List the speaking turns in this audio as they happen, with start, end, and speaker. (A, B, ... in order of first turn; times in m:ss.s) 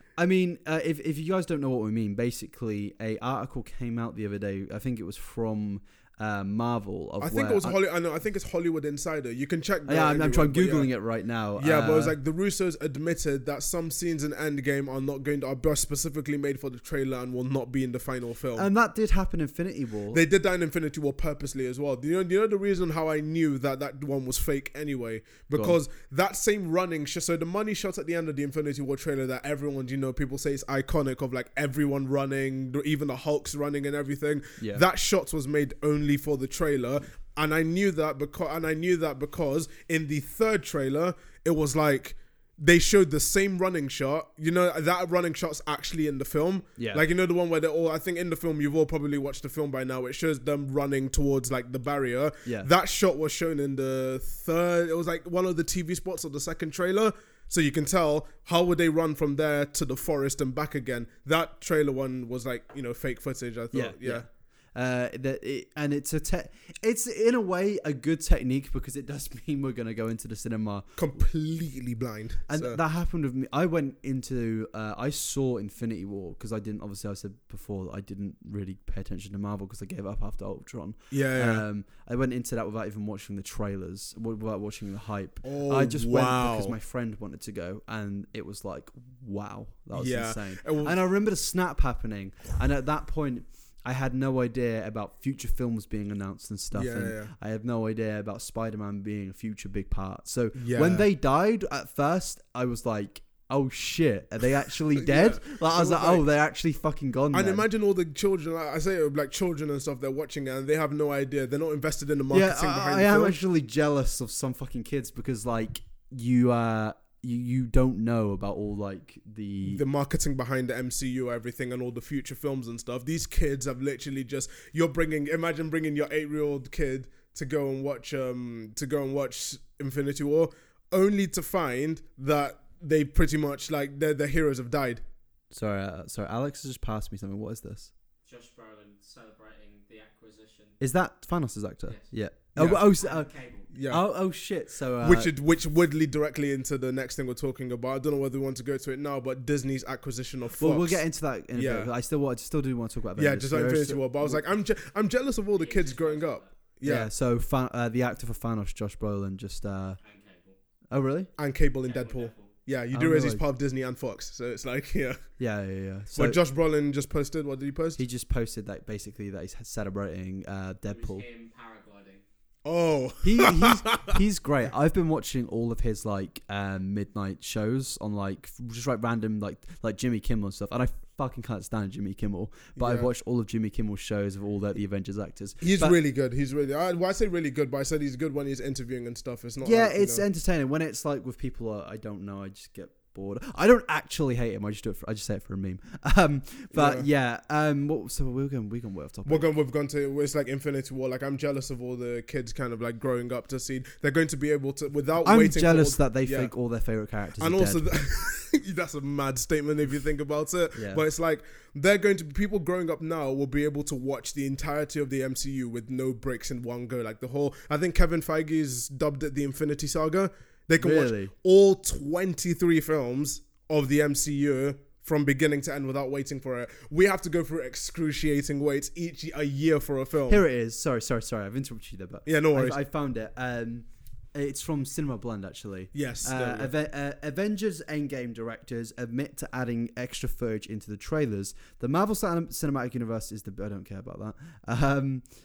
0:00.2-0:07.8 A
0:07.2-0:10.9 B
0:09.9-0:12.2 A
0:11.6-0:18.7 B
0:18.6-0:20.2 A
0:20.1-1:04.3 B
0:46.8-0:47.0 A
1:03.7-1:11.0 A
1:11.0-1:12.8 B
1:12.5-1:47.7 A
1:21.1-1:21.6 B
1:25.4-1:26.8 B
1:29.9-1:31.0 B
1:36.7-1:37.3 B
1:40.6-1:41.1 B
1:45.0-1:46.2 B
1:47.3-1:53.4 B
1:52.3-1:59.8 A
1:59.6-2:15.0 B
2:15.5-2:17.9 A
2:18.2-2:20.8 C
2:20.8-2:23.3 A
2:22.6-2:22.9 B
2:23.0-2:23.7 C
2:23.7-2:24.1 B
2:23.9-2:25.3 A
2:25.0-2:31.0 B
2:30.6-2:34.4 A
2:31.5-2:31.9 B
2:33.2-2:37.1 B
2:35.5-2:36.5 C
2:36.8-2:40.0 A
2:40.0-2:40.6 C
2:40.9-2:41.3 A
2:41.4-2:45.2 B
2:41.8-2:42.5 C
2:42.9-2:43.4 A
2:45.4-2:46.4 A
2:46.2-2:48.0 B
2:48.0-2:51.2 A
2:50.9-2:52.2 C
2:52.6-2:54.2 B
2:53.2-3:06.0 A
3:02.8-3:03.1 B
3:05.6-3:10.2 B
3:09.6-3:19.5 A
3:16.7-3:17.1 B
3:19.3-3:26.5 B
3:25.2-3:27.8 A
3:27.4-3:50.4 B
3:30.8-3:31.0 A
3:40.8-3:41.3 A
3:50.3-4:05.2 A
3:52.3-3:52.8 B
3:55.9-3:56.7 B